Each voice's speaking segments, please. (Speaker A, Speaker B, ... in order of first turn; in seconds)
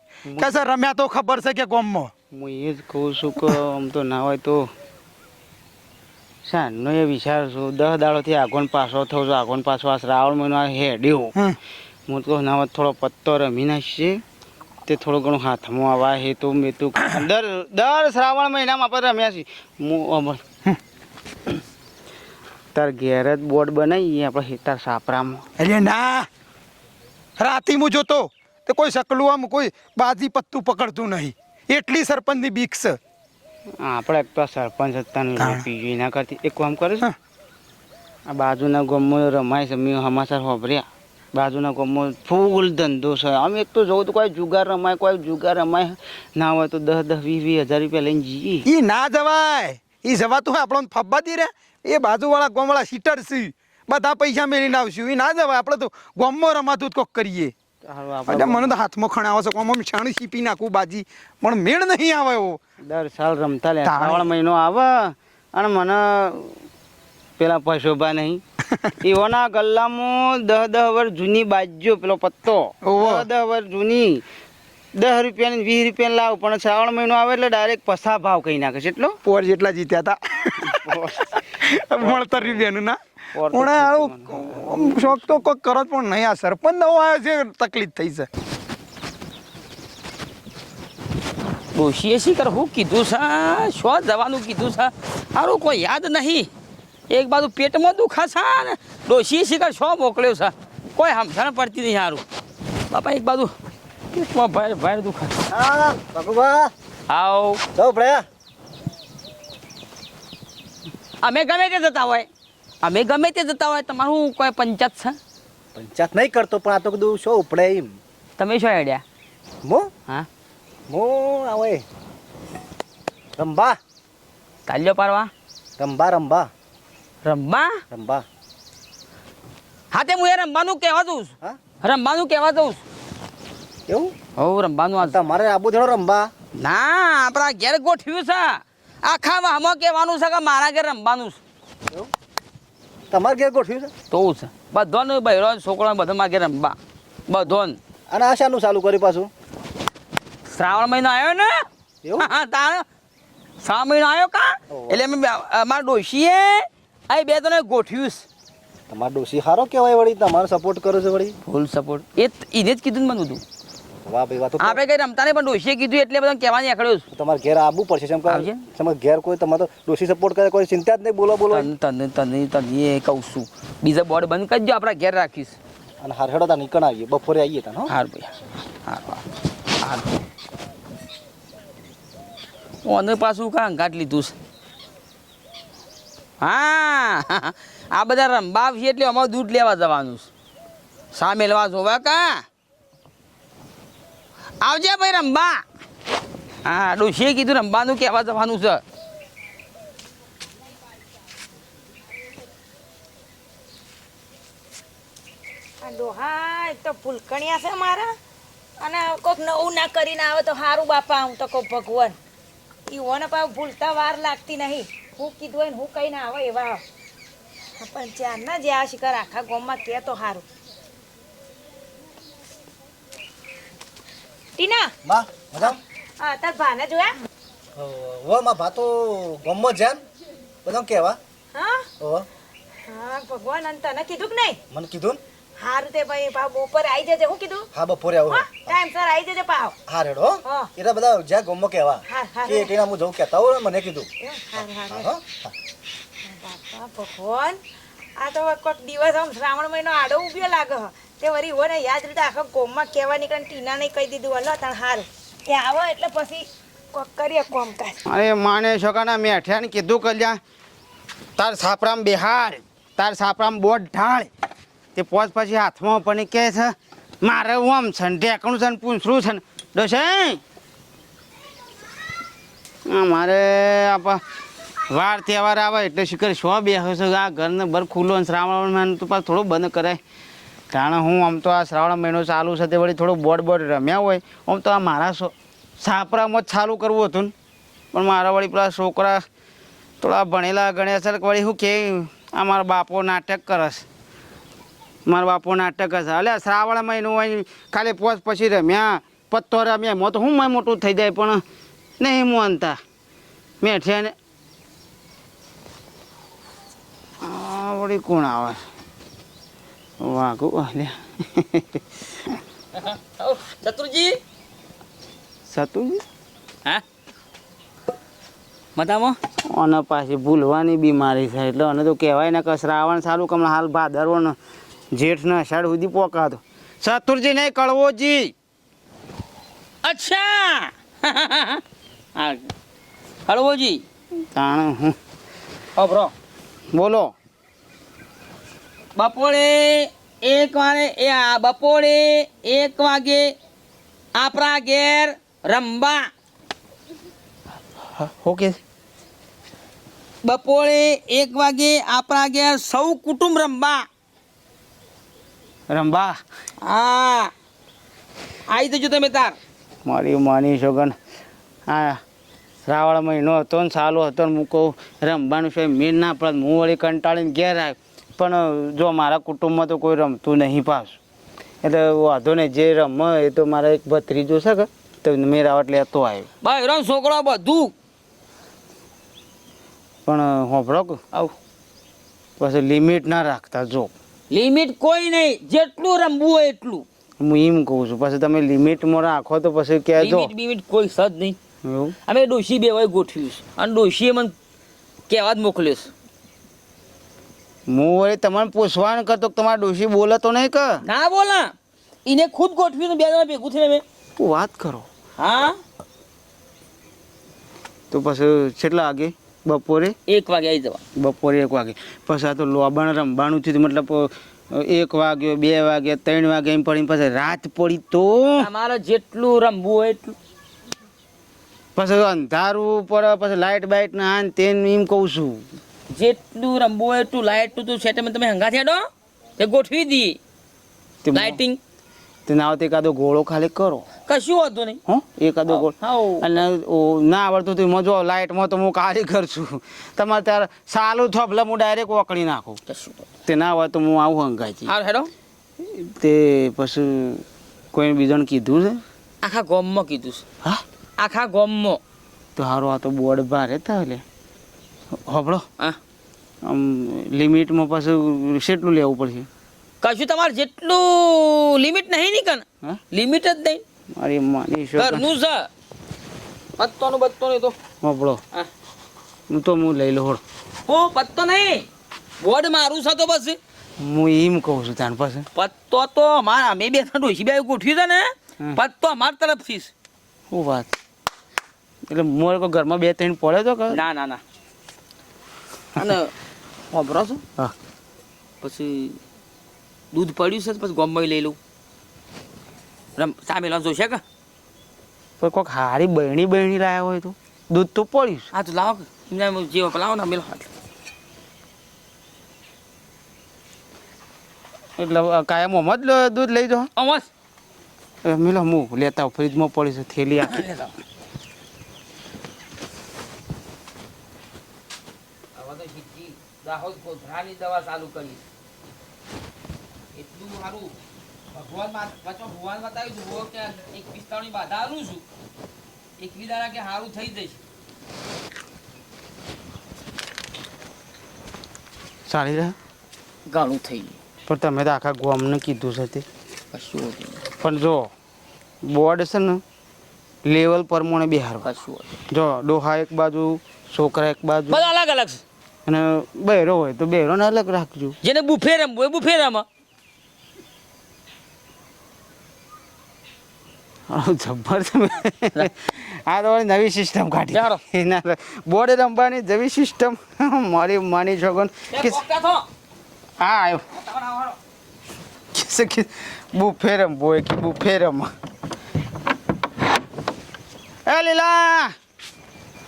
Speaker A: 0.2-0.6, 2.3-4.7, 6.5-11.3, 12.1-14.2, 14.9-20.4, 22.7-25.5, 33.8-37.0, 38.3-48.7, 57.8-58.7, 62.8-66.6, 67.4-68.4, 69.0-74.2, 75.0-79.2, 80.6-81.4, 82.0-82.6, 83.3-85.3, 258.1-260.4, 261.4-264.3, 264.9-270.4, 272.9-274.2, 274.9-280.0, 280.7-287.3, 287.9-289.2, 290.0-293.8, 295.1-301.4, 302.0-302.8, 303.6-304.1, 307.2-308.6, 310.0-312.4, 315.5-316.0, 319.5-324.4, 324.9-328.3, 334.3-335.0, 336.7-337.1, 347.9-348.6, 355.7-356.2, 359.8-360.9, 361.7-362.0, 362.6-371.0, 371.6-376.3, 380.1-381.0, 382.4-383.9, 387.2-390.3, 391.6-391.9, 397.7-400.8, 404.2-404.9, 407.9-409.9, 411.0-418.5, 421.8-425.4, 431.0-431.4, 432.3-433.9, 434.9-442.6, 443.2-444.7, 445.6-448.8, 452.4-454.0, 454.9-455.4, 456.4-459.3, 463.9-465.1, 467.8-468.2, 469.3-470.2, 473.8-475.3, 480.3-480.7, 481.9-483.8, 495.2-498.3, 504.8-506.7, 508.0-510.5, 532.1-532.5, 534.3-536.0, 537.4-537.9, 538.6-539.4, 540.2-541.5, 542.1-544.6, 545.6-548.0, 553.9-562.0, 563.2-563.6, 565.3-568.1, 570.9-571.7
Speaker B: 0.4-2.1, 25.6-26.3, 27.4-33.0, 35.4-35.6, 48.6-57.5, 58.2-62.6, 63.8-64.3, 72.8-73.3, 79.2-88.3
Speaker C: 91.7-96.5, 97.1-102.2, 102.9-103.5, 104.1-105.3, 107.1-107.6, 111.2-112.3, 112.8-115.2, 118.4-119.0, 124.7-125.3, 127.2-127.8, 129.9-132.8, 134.4-135.2, 136.5-141.4, 144.1-146.8, 147.3-147.8, 150.5-151.6, 152.2-152.8, 153.6-158.2, 161.4-163.4, 164.6-167.0, 168.3-168.6, 171.5-175.6, 177.9-179.2, 179.8-180.1, 182.8-184.3, 186.4-190.3, 191.1-192.4, 194.6-195.6, 196.6-198.8, 312.7-314.2, 318.8-319.2, 329.8-331.6, 332.1-332.5, 333.3-333.8, 335.8-336.1, 338.9-343.3, 344.1-346.1, 350.2-353.9, 356.6-357.3, 358.5-359.4, 376.4-377.7, 384.3-386.8, 390.0-391.4, 392.1-394.3, 395.1-395.9, 400.8-401.5, 402.1-403.8, 405.2-405.6, 410.1-410.8, 418.4-420.2, 425.9-430.2, 431.1-431.6, 434.1-434.8, 435.5-436.3, 442.7-443.1, 444.7-445.1, 449.2-450.2, 451.0-451.8, 459.8-463.6, 464.8-465.5, 466.6-467.5, 470.7-471.7, 472.2-473.4, 475.3-479.7, 483.7-484.2, 485.8-486.1, 486.7-487.2, 488.4-489.0, 489.9-491.4, 493.0-494.0, 498.3-500.5, 506.8-507.1, 510.2-510.7, 515.3-518.2, 519.9-520.7, 521.3-525.0, 526.0-527.4, 533.3-534.0, 536.5-537.3, 541.4-542.0, 544.5-545.2, 548.0-549.4, 557.3-557.6, 561.7-562.4, 563.7-564.4
Speaker D: 105.5-106.7, 107.8-108.2, 115.7-118.0, 119.6-119.9, 120.9-121.8, 123.4-123.8, 125.8-126.5, 127.9-128.2, 133.9-134.1, 135.0-136.3, 143.1-143.9, 148.1-149.3, 152.0-152.3, 154.7-155.0, 158.9-161.3, 164.1-164.8, 167.1-171.7, 176.0-177.9, 225.0-225.8, 227.8-230.0, 230.6-231.2, 232.0-232.3, 234.7-235.2, 237.7-238.7, 239.9-244.1, 244.9-245.5
Speaker E: 205.8-208.1, 208.8-212.2, 212.9-216.8, 217.8-220.4, 224.6-224.9, 225.6-227.2, 231.5-231.9, 232.8-234.6, 235.6-237.7, 238.3-239.8, 240.4-240.7, 242.1-242.7, 244.2-245.1, 246.2-247.6, 248.2-258.0